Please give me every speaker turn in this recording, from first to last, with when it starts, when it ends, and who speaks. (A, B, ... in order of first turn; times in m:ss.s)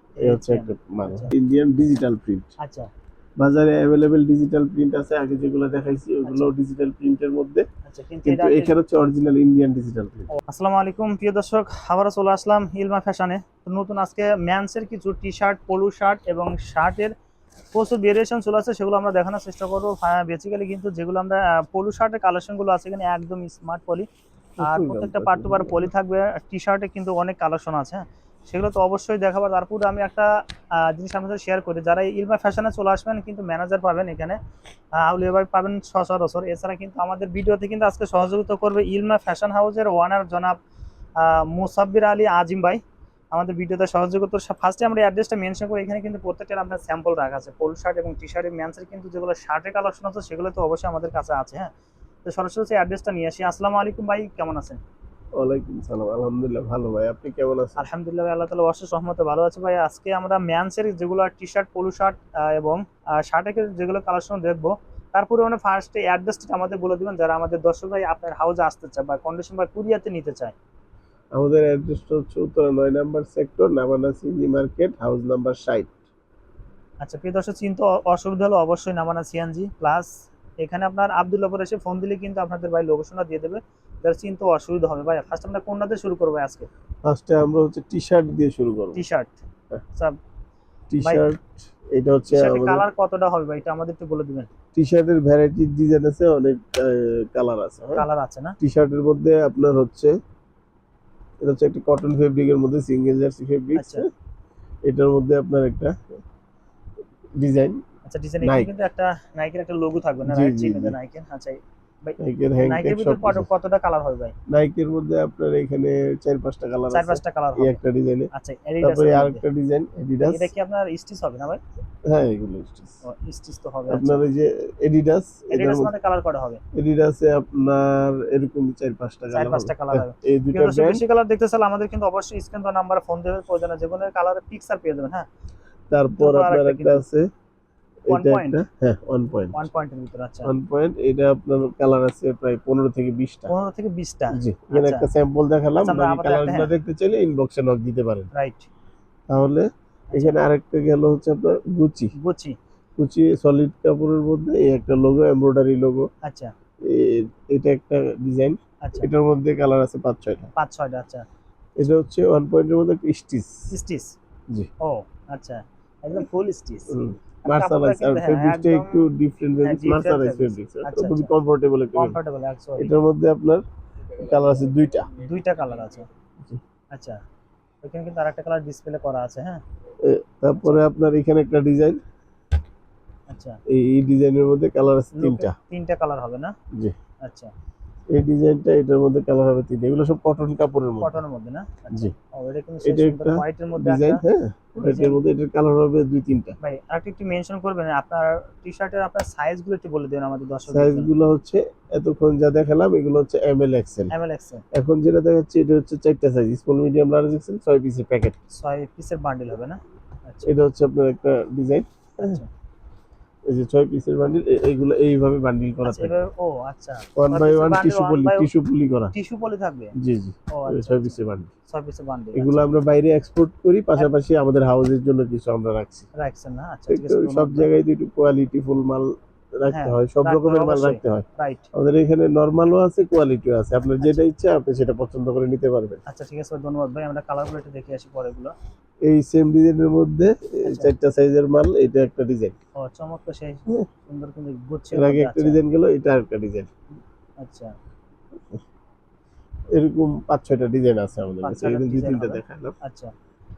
0:00.2-0:01.3 A
0:00.2-0:02.5 B
0:02.6-0:02.9 A
0:03.4-0:07.6 B
0:06.2-0:06.5 A
0:07.9-0:09.2 A
0:08.2-0:10.3 B
0:10.4-0:17.1 A
0:17.7-0:24.1 A
0:24.6-0:25.9 B
0:24.6-0:34.4 A
0:35.0-0:40.6 A
0:41.2-0:51.7 A
0:52.2-0:54.8 A
0:55.4-0:57.8 B
0:57.8-1:10.6 A
1:11.3-1:16.0 B
1:17.0-1:26.7 A
1:27.1-1:29.0 B
1:28.9-1:29.4 A
1:30.9-1:32.9 B
1:32.3-1:34.5 A
1:34.8-1:38.0 B
1:38.0-1:38.6 A
1:38.6-1:40.1 B
1:41.4-1:44.1 B
1:43.7-1:44.0 A
1:44.9-1:46.2 B
1:47.4-1:47.8 B
1:48.1-1:54.4 A
1:48.4-1:48.7 B
1:50.2-1:51.0 B
1:52.2-1:53.5 B
1:54.5-1:58.3 B
1:56.9-1:57.8 A
1:58.3-1:59.4 A
1:58.8-2:00.5 B
2:00.2-2:01.6 A
2:02.1-2:03.0 B
2:03.0-2:04.2 A
2:03.9-2:05.9 B
2:05.5-2:06.6 A
2:06.7-2:11.0 B
2:09.3-2:15.2 A
2:15.9-2:17.3 B
2:16.2-2:17.0 A
2:18.1-2:19.7 B
2:18.1-2:18.6 A
2:19.5-2:20.5 A
2:20.4-2:23.5 B
2:23.5-2:25.1 A
2:24.3-2:28.3 B
2:25.8-2:26.7 A
2:28.3-2:28.7 A
2:29.3-2:32.1 B
2:30.1-2:30.4 A
2:32.2-2:32.6 A
2:33.0-2:36.1 B
2:36.2-2:36.5 A
2:36.8-2:40.5 B
2:38.8-2:39.1 A
2:40.6-2:41.2 A
2:41.8-2:43.7 B
2:43.7-2:44.2 A
2:44.8-2:49.1 A
2:46.9-2:52.2 B
2:49.6-2:51.3 A
2:51.9-2:53.0 A
2:52.8-2:53.6 B
2:54.2-2:55.1 B
2:55.1-2:56.1 A
2:56.9-2:57.2 A
2:57.8-2:59.6 A
3:00.0-3:02.0 B
3:00.6-3:00.8 A
3:03.3-3:03.6 A
3:03.7-3:05.5 B
3:05.2-3:06.5 A
3:07.2-3:07.5 A
3:08.1-3:11.2 B
3:11.0-3:14.2 A
3:12.8-3:16.6 B
3:14.8-3:15.2 A
3:16.6-3:21.1 A
3:20.7-3:24.1 B
3:24.1-3:24.6 A
3:24.7-3:28.4 B
3:28.5-3:30.5 A
3:30.5-3:32.4 B
3:32.2-3:32.5 A
3:33.5-3:36.2 B
3:35.8-3:38.5 A
3:37.2-3:39.1 B
3:39.1-3:39.9 A
3:40.0-3:41.5 B
3:40.5-3:42.7 A
3:42.3-3:46.1 B
3:46.2-3:47.7 A
3:46.9-3:56.0 B
3:49.7-3:51.7 A
3:56.1-3:58.5 A
3:59.1-4:02.5 B
4:00.7-4:00.9 A
4:02.8-4:05.6 A
4:04.9-4:06.7 B
4:07.4-4:07.7 A
4:09.7-4:12.8 B
4:11.4-4:13.1 A